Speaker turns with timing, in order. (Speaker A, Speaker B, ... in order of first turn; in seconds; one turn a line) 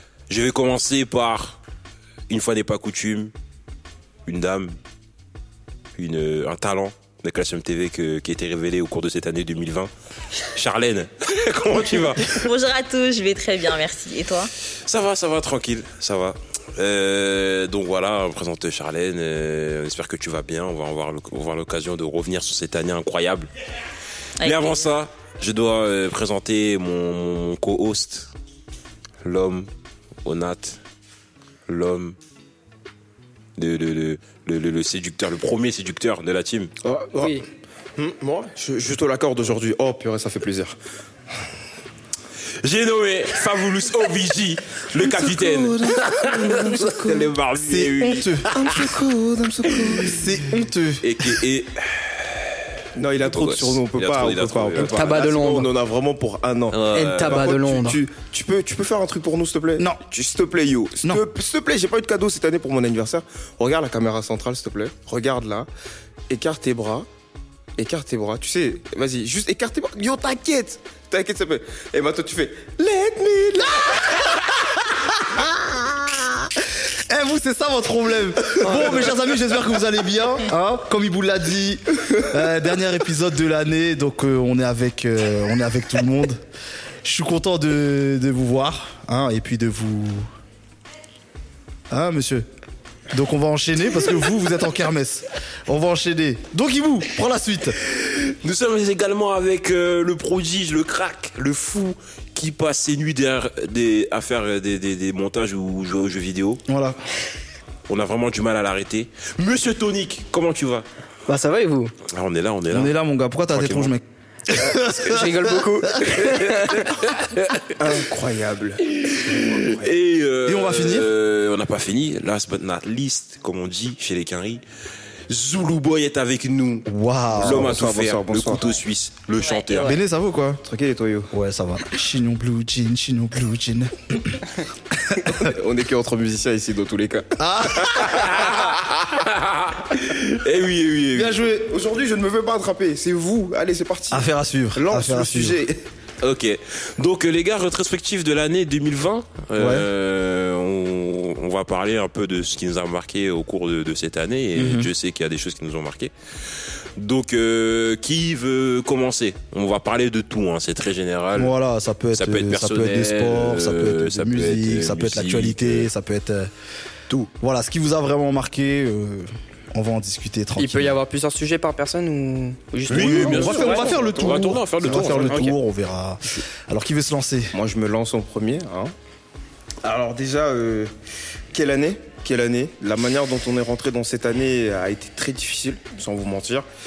Speaker A: 0.3-1.6
Speaker A: 2.3-3.3
Speaker A: 4.3-4.7
Speaker A: 6.0-9.9
Speaker A: 10.5-12.5
Speaker B: 12.2-14.5
Speaker A: 14.9-23.5
Speaker B: 24.4-24.8
Speaker A: 24.4-28.3
Speaker A: 29.2-29.7
Speaker A: 30.2-30.8
Speaker A: 31.7-32.2
Speaker A: 33.6-36.7
Speaker C: 36.8-37.5
Speaker D: 37.2-37.4
Speaker C: 38.0-40.8
Speaker A: 42.6-49.0
Speaker C: 45.0-47.3
Speaker E: 47.6-48.5
Speaker C: 48.5-50.3
Speaker A: 49.7-50.0
Speaker E: 50.0-51.2
Speaker A: 51.0-55.3
Speaker C: 53.0-65.7
Speaker D: 54.8-55.7
Speaker A: 56.7-57.5
Speaker D: 56.9-58.0
Speaker C: 66.3-67.1
Speaker C: 67.8-74.4
Speaker E: 75.0-76.3
Speaker E: 76.9-86.4
Speaker C: 78.6-79.1
Speaker E: 87.0-90.3
Speaker E: 91.9-92.5
Speaker E: 93.1-97.8
Speaker A: 97.8-106.6
Speaker E: 106.7-107.0
Speaker A: 107.9-110.8
Speaker D: 111.3-111.9
Speaker A: 112.1-112.9
Speaker E: 112.7-116.1
Speaker A: 113.5-113.9
Speaker D: 114.8-116.9
Speaker A: 116.2-117.7
Speaker C: 117.8-119.9
Speaker A: 119.0-124.6
Speaker E: 120.5-121.1
Speaker A: 125.3-130.0
Speaker E: 126.9-127.8
Speaker C: 127.4-128.7
Speaker B: 129.3-129.9
Speaker E: 129.8-130.6
Speaker C: 130.6-131.3
Speaker E: 131.3-135.4
Speaker C: 135.2-138.5
Speaker E: 137.4-138.3
Speaker A: 138.1-141.4
Speaker E: 141.1-141.7
Speaker C: 141.5-145.8
Speaker E: 144.1-145.6
Speaker A: 146.2-161.5
Speaker E: 149.6-149.9
Speaker E: 154.6-154.9
Speaker E: 161.3-166.5
Speaker A: 162.2-165.9
Speaker E: 167.1-171.0
Speaker D: 170.6-174.0
Speaker A: 172.9-175.6
Speaker E: 172.9-177.6
Speaker C: 173.0-174.4
Speaker C: 177.5-178.9
Speaker C: 179.8-180.9
Speaker C: 181.5-186.7